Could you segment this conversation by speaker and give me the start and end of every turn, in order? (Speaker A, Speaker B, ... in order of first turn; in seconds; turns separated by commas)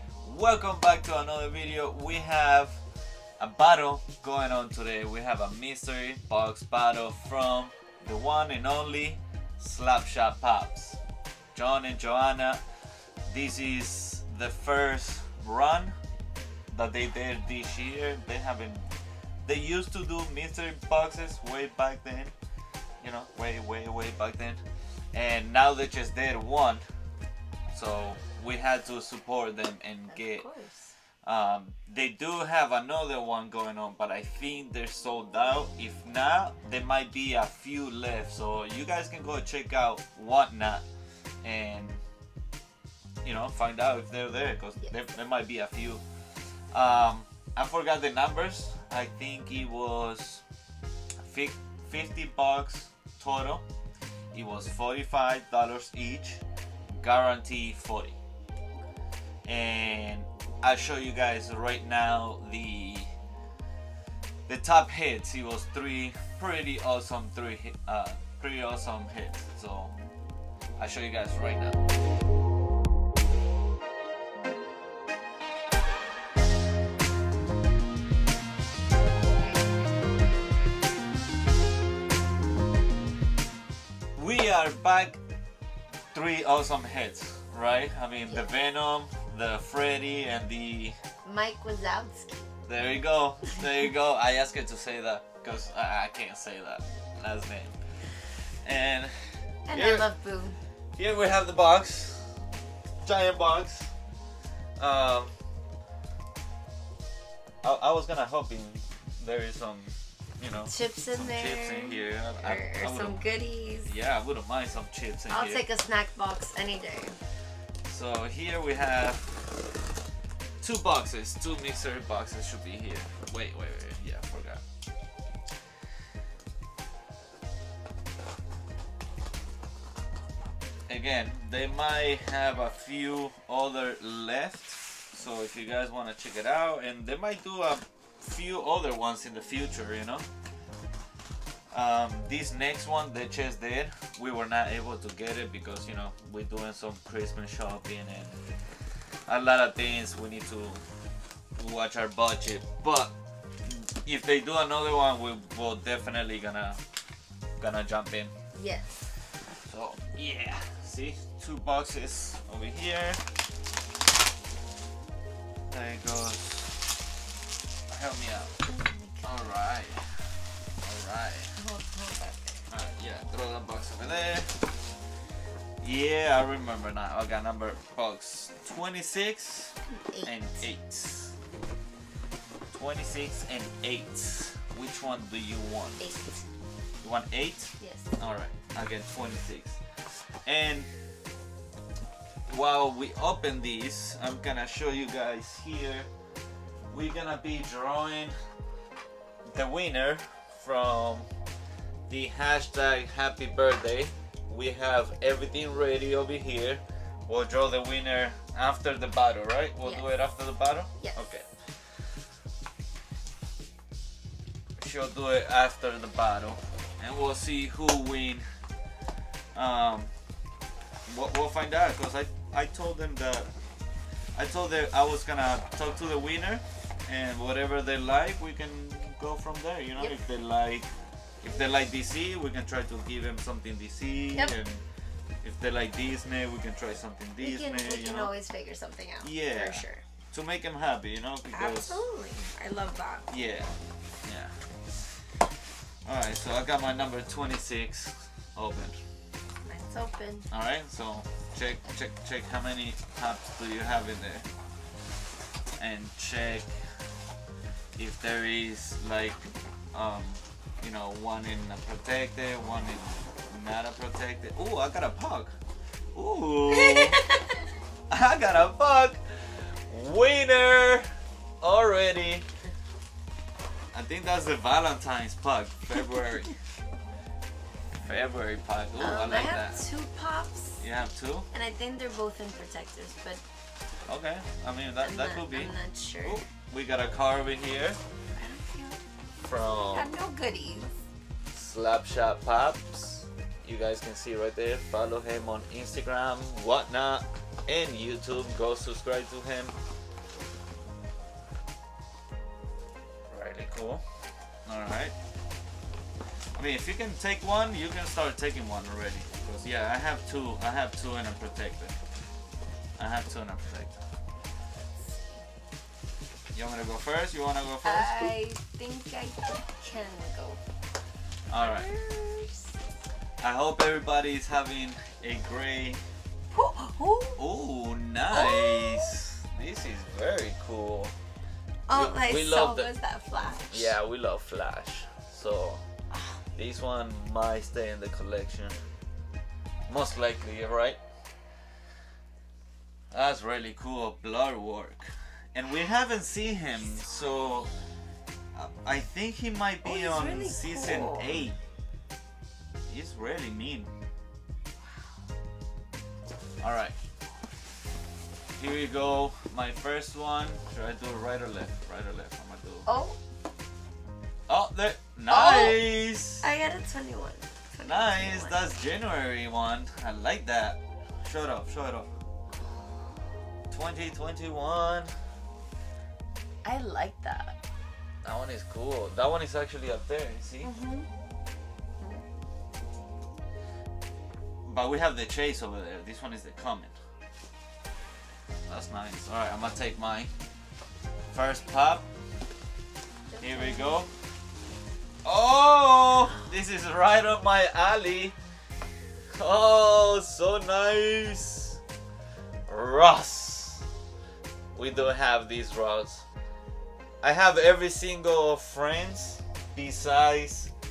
Speaker A: 0.2-2.8, Speaker A: 3.4-11.0, Speaker A: 11.5-12.6, Speaker A: 13.3-15.9, Speaker A: 16.7-18.9, Speaker A: 19.5-22.4, Speaker A: 23.0-24.6, Speaker A: 25.1-26.8, Speaker A: 27.7-30.5, Speaker B: 30.1-30.9, Speaker A: 31.2-40.9, Speaker A: 41.4-42.0, Speaker A: 43.2-46.0, Speaker B: 44.8-45.1, Speaker A: 46.7-50.4, Speaker A: 51.2-53.6, Speaker A: 54.3-56.4, Speaker A: 57.0-58.2, Speaker A: 59.5-63.1, Speaker A: 64.5-69.9, Speaker A: 70.8-71.8, Speaker B: 79.3-79.6, Speaker A: 84.2-85.2, Speaker A: 86.1-91.0, Speaker B: 91.2-92.5, Speaker A: 92.7-97.8, Speaker A: 98.6-99.1, Speaker B: 99.7-100.6, Speaker A: 99.7-100.1, Speaker A: 101.0-102.3, Speaker A: 103.0-103.9, Speaker A: 104.8-105.3, Speaker A: 107.6-113.2, Speaker B: 110.7-113.9, Speaker A: 113.8-115.7, Speaker B: 115.3-117.2, Speaker A: 117.9-119.2, Speaker A: 120.6-124.6, Speaker A: 130.9-140.3, Speaker A: 141.7-148.4, Speaker A: 149.3-150.8, Speaker A: 151.6-153.1, Speaker A: 153.7-156.8, Speaker A: 157.6-158.3, Speaker B: 158.5-159.1, Speaker A: 159.6-163.2, Speaker A: 165.7-166.9, Speaker A: 167.9-168.6, Speaker B: 168.7-169.6, Speaker A: 169.2-170.2, Speaker A: 170.8-171.5, Speaker B: 171.6-172.6, Speaker A: 172.7-174.7, Speaker A: 175.8-181.4, Speaker B: 179.9-180.7, Speaker A: 182.7-186.1, Speaker B: 186.0-186.4, Speaker A: 187.0-190.9, Speaker B: 187.8-188.2, Speaker A: 192.5-196.1, Speaker A: 196.9-198.4, Speaker A: 199.5-201.3, Speaker A: 202.1-211.5, Speaker B: 209.8-210.1, Speaker B: 211.0-211.3, Speaker A: 214.8-218.4, Speaker A: 219.6-220.1, Speaker A: 221.1-223.5, Speaker A: 224.3-234.8, Speaker B: 230.0-230.3, Speaker A: 235.4-238.3, Speaker B: 237.4-240.0, Speaker A: 239.2-242.0, Speaker B: 241.5-243.3, Speaker A: 243.3-243.7, Speaker A: 244.3-244.6, Speaker A: 246.1-249.0, Speaker B: 249.7-250.5, Speaker A: 250.5-254.5, Speaker A: 255.8-256.7, Speaker A: 258.0-259.4, Speaker A: 259.9-265.5, Speaker A: 266.1-267.2, Speaker B: 266.7-267.6, Speaker A: 268.1-271.1, Speaker A: 271.6-272.5, Speaker A: 273.9-276.6, Speaker A: 278.0-279.8, Speaker B: 279.0-280.8, Speaker A: 280.8-281.5, Speaker B: 281.5-283.4, Speaker A: 284.1-288.0, Speaker B: 285.0-286.4, Speaker B: 288.4-289.0, Speaker A: 289.4-290.1, Speaker B: 289.6-290.9, Speaker A: 291.5-299.8, Speaker A: 303.3-304.0, Speaker A: 304.7-305.1, Speaker A: 306.6-312.0, Speaker A: 313.0-314.0, Speaker B: 315.0-315.4, Speaker A: 316.5-318.2, Speaker B: 317.8-320.6, Speaker A: 321.5-321.9, Speaker B: 321.6-322.7, Speaker A: 323.4-326.0, Speaker B: 326.5-327.4, Speaker A: 327.4-331.1, Speaker B: 328.3-329.1, Speaker B: 331.9-334.0, Speaker A: 331.9-332.9, Speaker A: 333.6-335.8, Speaker B: 336.1-336.4, Speaker A: 336.6-338.8, Speaker A: 339.9-341.0, Speaker A: 343.1-347.7, Speaker A: 348.6-351.6, Speaker B: 349.8-351.4, Speaker A: 352.9-353.9, Speaker A: 356.6-356.9, Speaker A: 358.6-362.9, Speaker B: 362.9-363.2, Speaker A: 364.5-366.5, Speaker B: 365.3-365.8, Speaker B: 366.4-368.7, Speaker A: 367.9-372.1, Speaker B: 372.6-372.9, Speaker A: 373.7-375.1, Speaker B: 376.6-377.6, Speaker A: 378.2-380.7, Speaker B: 380.6-381.1, Speaker B: 382.0-382.2, Speaker A: 384.6-386.9, Speaker A: 388.7-390.3, Speaker A: 391.3-392.1, Speaker B: 393.3-394.1, Speaker A: 393.4-394.1, Speaker A: 395.2-398.4, Speaker A: 399.3-401.8, Speaker A: 402.7-403.9, Speaker A: 404.8-406.2, Speaker A: 407.2-410.7